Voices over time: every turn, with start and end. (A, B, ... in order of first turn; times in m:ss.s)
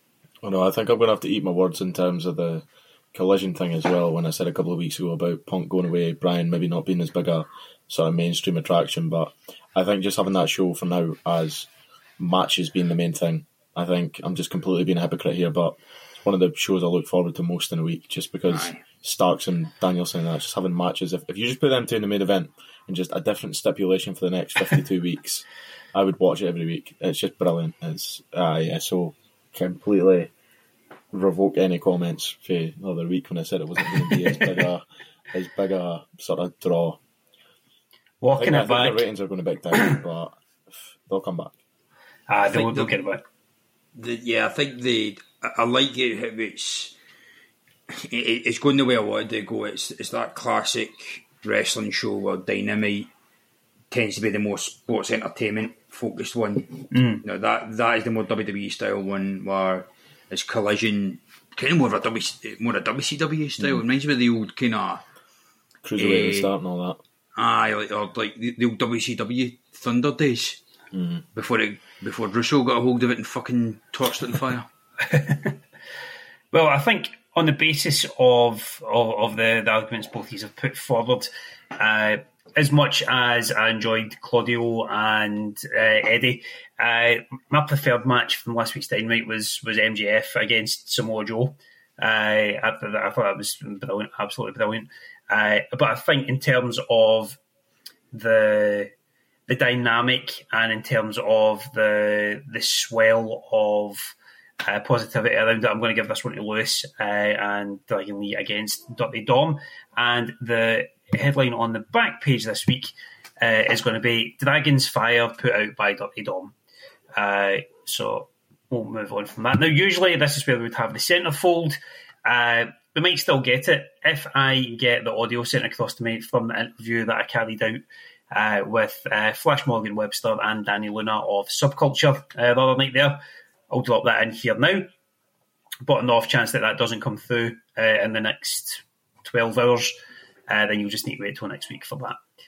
0:00.4-0:30.3 A
0:18.5-0:18.8 B
0:31.1-0:37.0 A
0:38.2-0:39.1 C
0:38.3-0:40.4 A
0:41.1-0:41.6 A
0:42.3-0:43.2 C
0:42.5-0:43.0 B
0:44.0-0:46.9 B
0:47.9-0:53.1 B
0:53.9-1:05.0 B
0:56.9-0:57.2 C
1:05.8-1:07.0 A
1:06.0-1:06.5 B
1:07.4-1:10.6 B
1:10.9-1:11.2 A
1:11.3-1:14.7 B
1:15.0-1:15.5 C
1:16.5-1:37.4 C
1:38.1-1:38.9 C
1:39.5-1:56.5 C
1:57.2-2:14.9 C
2:15.8-2:19.9 C
2:20.5-2:22.2 C